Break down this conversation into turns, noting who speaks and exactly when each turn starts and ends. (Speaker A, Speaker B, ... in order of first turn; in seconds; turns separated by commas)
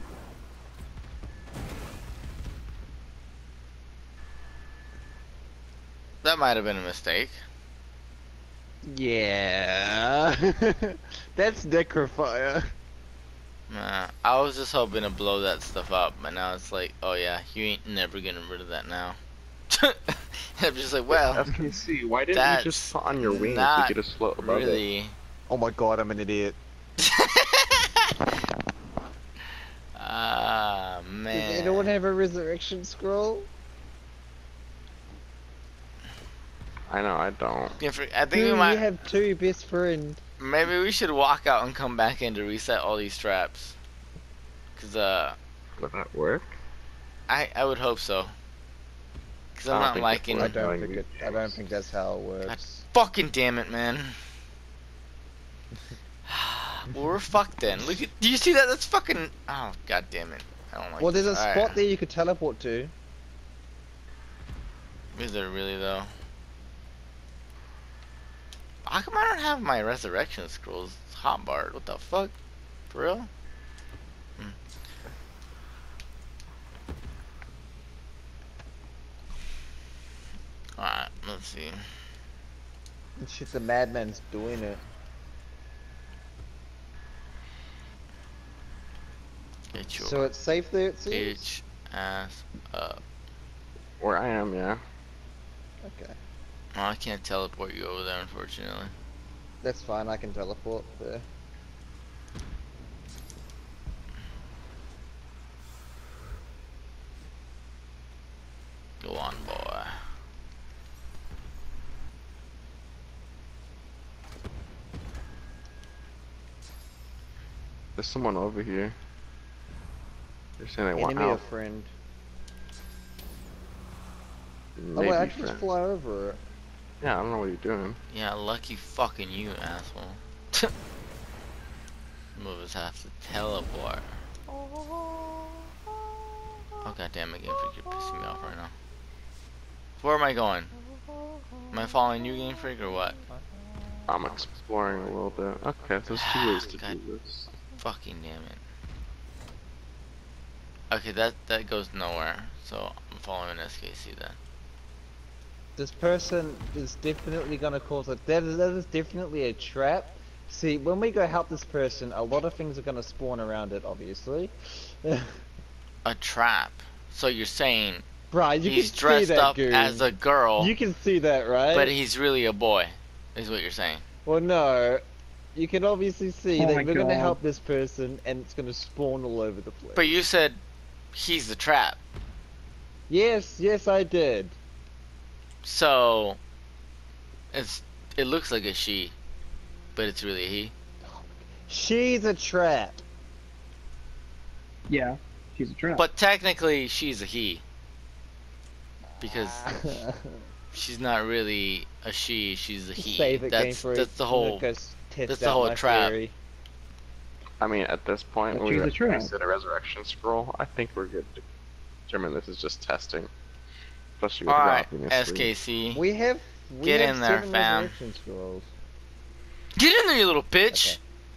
Speaker A: 6.2-7.4, Speaker B: 8.8-12.7, Speaker A: 13.7-19.2, Speaker A: 19.7-21.5, Speaker C: 21.1-24.8, Speaker A: 22.3-25.1, Speaker B: 25.5-26.6, Speaker A: 27.0-28.1, Speaker A: 29.9-31.9, Speaker B: 31.3-33.5, Speaker C: 36.9-37.8, Speaker A: 37.8-38.9, Speaker B: 38.3-40.2, Speaker A: 40.4-43.8, Speaker A: 44.8-45.4, Speaker C: 45.8-46.5, Speaker A: 47.3-48.3, Speaker A: 49.6-50.6, Speaker C: 49.7-51.6, Speaker B: 50.3-52.8, Speaker A: 52.5-54.2, Speaker A: 56.3-61.8, Speaker B: 61.0-62.9, Speaker A: 65.1-66.1, Speaker A: 68.9-72.3, Speaker A: 72.9-73.3, Speaker A: 80.8-81.8, Speaker B: 83.2-84.8, Speaker A: 89.7-90.3, Speaker B: 90.0-91.5, Speaker A: 91.1-93.0, Speaker C: 94.0-94.8, Speaker B: 95.8-96.2, Speaker A: 96.8-98.9, Speaker B: 99.6-101.3, Speaker A: 109.0-110.0, Speaker C: 118.0-119.0, Speaker C: 120.6-121.4, Speaker B: 121.0-121.9, Speaker C: 124.8-125.6, Speaker B: 125.0-126.4, Speaker C: 127.0-128.0, Speaker A: 128.1-130.7, Speaker A: 132.3-134.1, Speaker A: 136.8-138.7, Speaker A: 140.0-140.7, Speaker A: 141.7-143.2, Speaker C: 144.1-147.5, Speaker A: 146.1-147.0, Speaker A: 147.8-148.6, Speaker A: 150.9-154.4, Speaker B: 155.8-165.3, Speaker A: 166.1-168.1, Speaker B: 168.3-170.1, Speaker A: 168.7-170.7, Speaker B: 170.6-171.9, Speaker A: 171.7-174.0, Speaker B: 174.3-175.0, Speaker B: 175.6-180.2, Speaker D: 176.6-177.4, Speaker A: 180.0-180.6, Speaker A: 181.1-182.0, Speaker B: 183.1-184.6, Speaker A: 185.6-186.4, Speaker A: 187.5-189.2, Speaker A: 189.9-190.7, Speaker B: 191.1-193.0, Speaker D: 194.9-196.1, Speaker A: 196.0-197.6, Speaker A: 199.2-199.9, Speaker B: 199.4-200.4, Speaker A: 200.7-204.6, Speaker B: 203.0-206.3, Speaker A: 205.3-206.2, Speaker C: 207.6-211.4, Speaker D: 208.5-209.3, Speaker C: 212.1-213.3, Speaker C: 214.2-215.5, Speaker A: 214.5-216.0, Speaker B: 215.9-218.7, Speaker A: 216.8-217.9, Speaker A: 219.8-221.0, Speaker B: 220.7-221.0